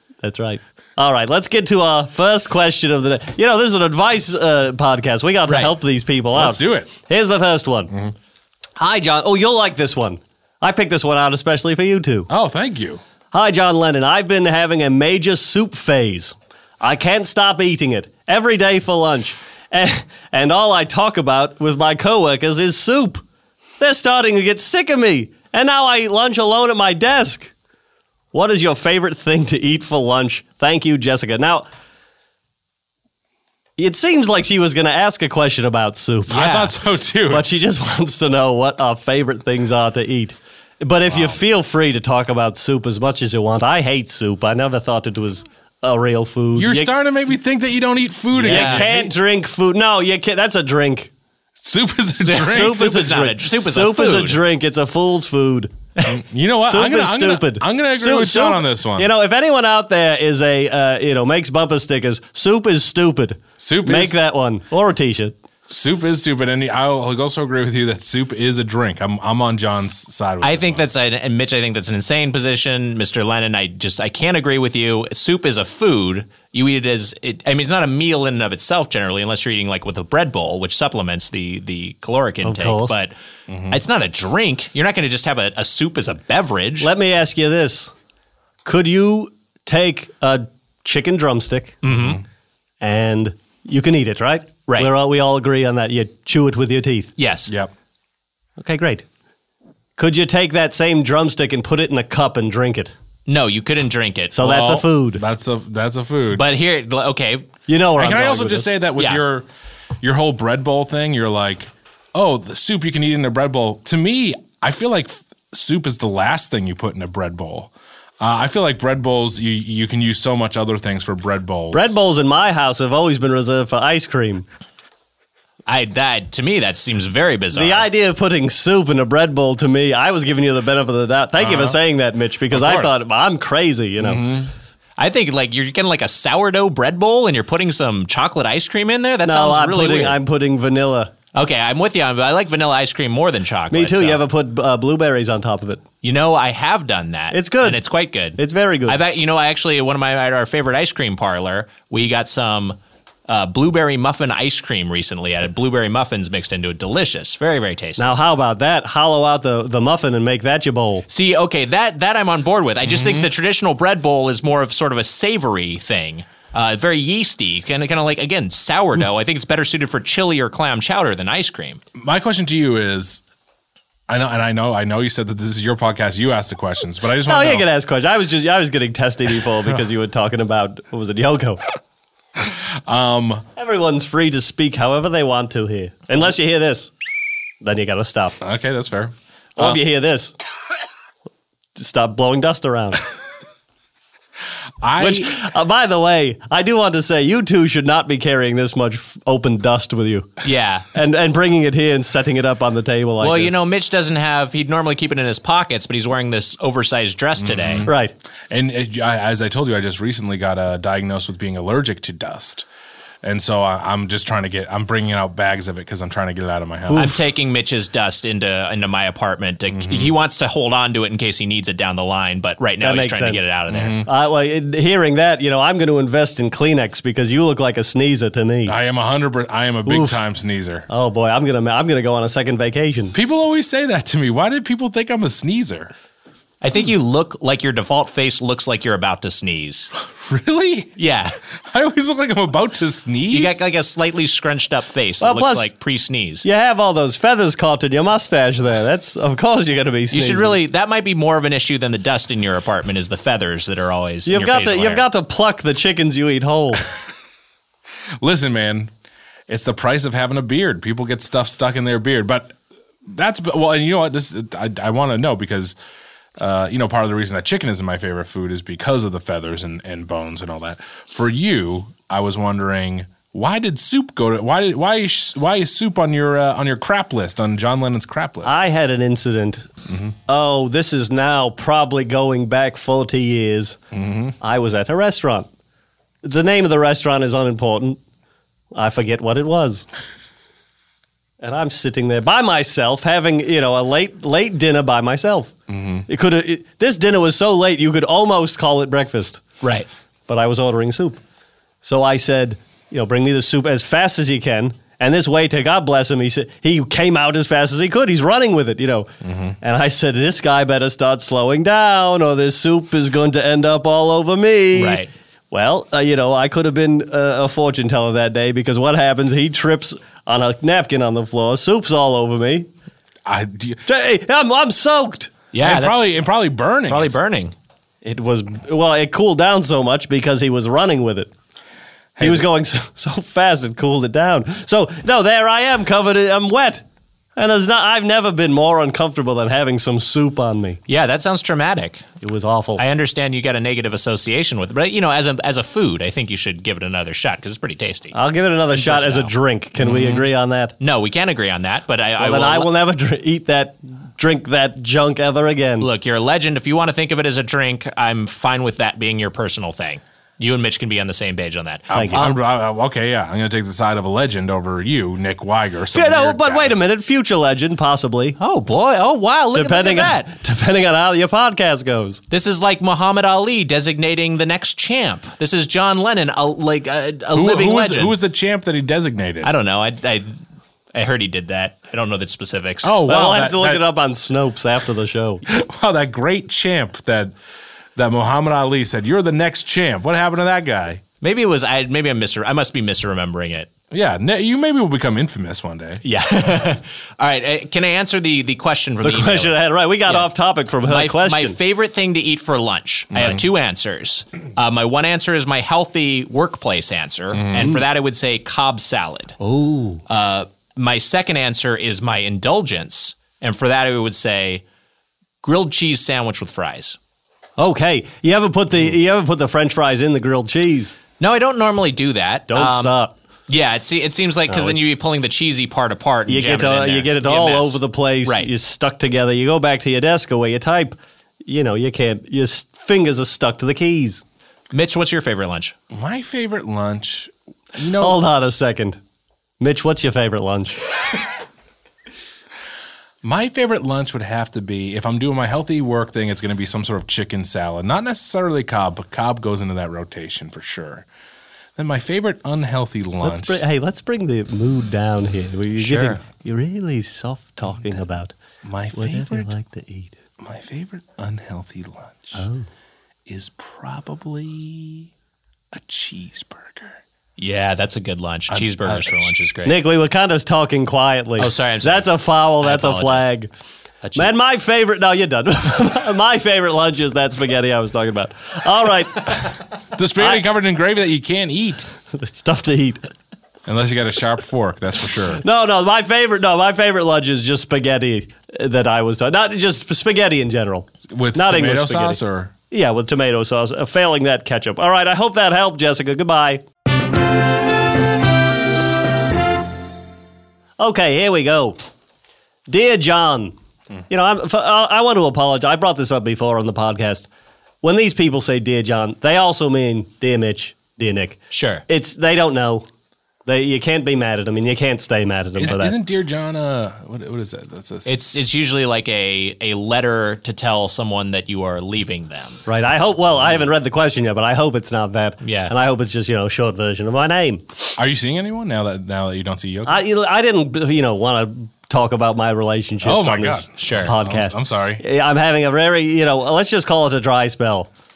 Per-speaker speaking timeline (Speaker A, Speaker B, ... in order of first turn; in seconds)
Speaker A: 0.2-7.9, 8.8-12.3, 13.3-23.2, 23.8-27.5, 28.3-31.7, 33.8-36.5, 37.3-46.9, 48.4-51.1, 52.3-55.7, 56.6-65.3, 82.4-82.9, 86.8-87.9, 88.6-91.8, 92.8-97.1, 98.6-99.0, 100.0-102.9, 104.3-105.2, 107.7-108.7, 121.7-124.5, 127.5-134.3, 139.2-141.1, 143.7-145.8, 147.3-147.8, 148.3-149.0, 158.0-161.1, 177.3-181.6, 183.6-186.9, 187.6-188.4, 189.6-190.3, 191.7-193.0, 195.0-200.3, 200.9-203.6, 207.8-208.1, 216.9-217.2, 222.8-223.4, 224.0-228.7, 229.8-230.2, 230.9-233.1, 245.2-245.7, 246.4-250.6, 254.2-256.9, 278.4-279.7, 280.3-283.8, 284.4-285.5, 286.2-288.0, 288.7-289.9, 291.4-295.5, 296.1-299.4, 300.3-301.2, 301.8-322.7, 323.9-325.3, 328.0-331.3, 332.2-336.8, 337.4-340.8, 342.2-342.8, 348.1-350.7, 352.2-355.9, 361.9-362.2, 365.9-368.4, 369.5-372.2, 383.1-385.4, 399.0-401.6, 409.4-410.0, 417.6-421.0, 422.5-423.1, 424.5-424.9, 426.3-434.2, 438.0-439.0, 439.6-440.8, 453.2-458.3, 458.9-460.1, 462.3-462.7, 469.6-473.5, 474.1-479.5, 482.1-483.1, 485.4-496.6, 500.8-501.8, 502.7-503.5, 504.1-507.3, 507.8-512.8, 513.5-516.0, 522.6-527.6, 529.9-537.9
Speaker B: 5.5-5.7, 36.3-36.7, 48.4-48.9, 52.2-54.4, 70.4-83.1, 83.7-86.9, 91.8-92.2, 97.2-97.5, 103.3-104.7, 106.3-107.5, 125.7-127.9, 135.0-140.2, 141.3-144.2, 146.0-152.8, 153.3-158.0, 161.1-171.8, 200.4-200.8, 203.2-207.9, 216.9-224.0, 236.6-239.9, 241.0-241.3, 243.3-246.4, 250.1-255.1, 299.6-299.9, 314.7-315.1, 325.5-326.1, 326.9-327.5, 340.9-342.1, 342.8-348.1, 348.7-349.3, 350.8-352.7, 355.8-362.4, 368.4-370.2, 372.3-378.1, 379.4-380.3, 380.9-382.9, 391.2-393.7, 396.0-400.3, 400.8-409.4, 410.1-414.6, 415.4-417.0, 421.2-422.9, 423.5-428.5, 434.7-435.7, 455.8-456.2, 467.4-469.8, 471.4-473.3, 474.0-474.3, 511.5-511.8, 518.0-522.6, 525.4-525.7, 533.8-534.1
Speaker C: 6.3-6.9, 12.3-13.0, 36.3-37.5, 41.1-41.4, 46.5-49.1, 51.6-52.9, 56.0-59.1, 63.6-64.2, 65.7-70.8, 83.5-83.8, 91.8-92.2, 104.4-106.4, 108.0-109.5, 110.0-121.9, 131.4-131.8, 132.5-133.0, 134.0-134.5, 162.8-163.3, 171.9-173.2, 174.1-177.7, 182.4-183.4, 188.4-189.8, 194.8-195.4, 207.4-207.9, 208.5-212.7, 213.2-217.2, 219.7-220.1, 223.7-224.1, 228.7-230.8, 233.1-235.9, 240.1-240.9, 241.7-243.6, 258.2-258.9, 259.5-262.6, 263.1-265.7, 266.4-278.6, 283.9-284.3, 295.7-296.0, 309.2-309.5, 323.2-323.8, 325.6-327.2, 332.1-332.5, 349.8-350.2, 361.9-366.8, 377.3-379.5, 382.8-383.8, 385.4-387.3, 387.9-391.0, 393.9-396.0, 403.1-403.4, 407.3-407.7, 435.9-438.2, 443.2-451.1, 451.8-453.6, 458.6-459.5, 460.4-462.4, 463.3-465.1, 465.7-467.0, 468.5-469.2, 479.9-481.9, 483.6-485.4, 491.1-492.5, 515.6-518.1, 528.0-530.0, 533.0-535.0